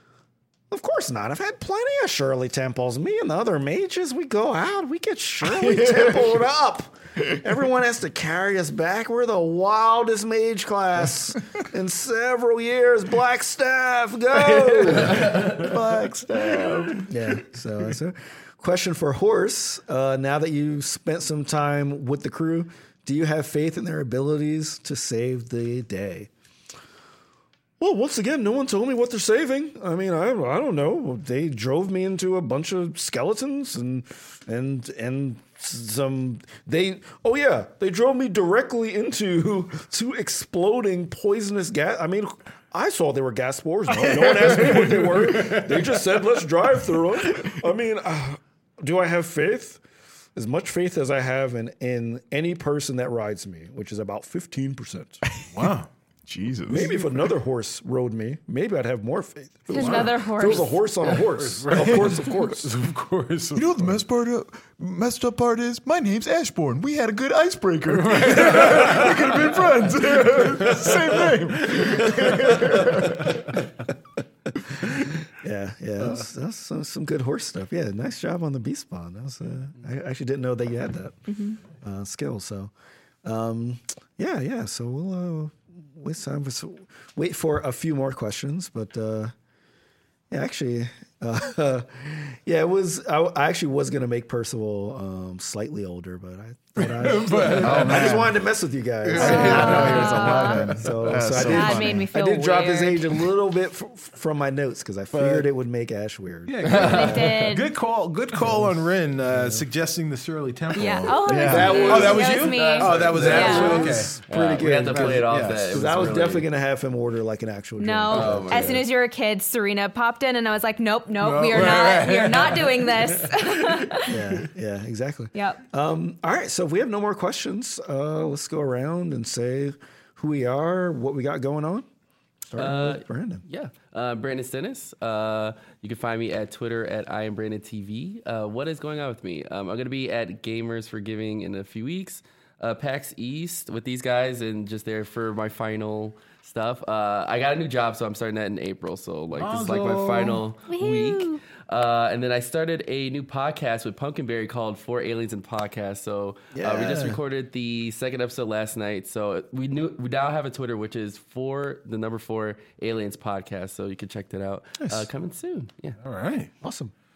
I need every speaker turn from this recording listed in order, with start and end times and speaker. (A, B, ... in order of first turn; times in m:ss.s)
0:00.7-0:15.4 A
0:05.4-0:06.3 B
0:14.6-0:17.2 B
0:15.2-0:15.6 C
0:17.1-0:26.3 A
0:27.8-0:49.8 A
0:44.2-0:46.0 D
0:50.4-0:55.2 A
0:55.3-0:55.7 B
0:55.5-0:55.9 D
0:56.3-0:57.3 B
0:56.7-1:02.7 A
0:59.7-1:00.8 E
0:59.7-1:00.1 D
1:01.1-1:04.0 D
1:03.5-1:13.6 B
1:07.9-1:09.6 D
1:10.3-1:10.9 D
1:10.7-1:10.9 A
1:12.3-1:13.5 A
1:14.8-1:22.7 A
1:21.3-1:21.6 E
1:23.2-1:29.3 A
1:30.3-1:47.5 A
1:36.8-1:38.2 D
1:37.6-1:38.1 C
1:37.6-1:38.3 B
1:39.0-1:40.7 D
1:39.2-1:40.6 E
1:39.2-1:42.1 B
1:41.3-1:43.2 E
1:45.1-1:45.5 D
1:46.5-1:54.2 D
1:46.6-1:47.1 C
1:46.8-1:47.7 E
1:49.3-1:49.6 A
1:50.7-1:53.9 E
1:51.2-1:51.8 B
1:51.4-1:58.8 A
1:51.5-1:56.5 C
1:54.8-1:55.8 D
1:57.8-2:04.2 E
1:58.1-1:58.8 C
2:01.2-2:03.9 D
2:04.0-2:11.9 A
2:05.3-2:05.6 E
2:12.5-2:13.4 A
2:12.6-2:46.0 C
2:29.4-2:30.4 D
2:30.7-2:31.4 E
2:36.5-2:37.2 A
2:36.8-2:37.0 D
2:44.8-2:45.1 A
2:46.0-2:46.5 D
2:46.6-2:46.9 A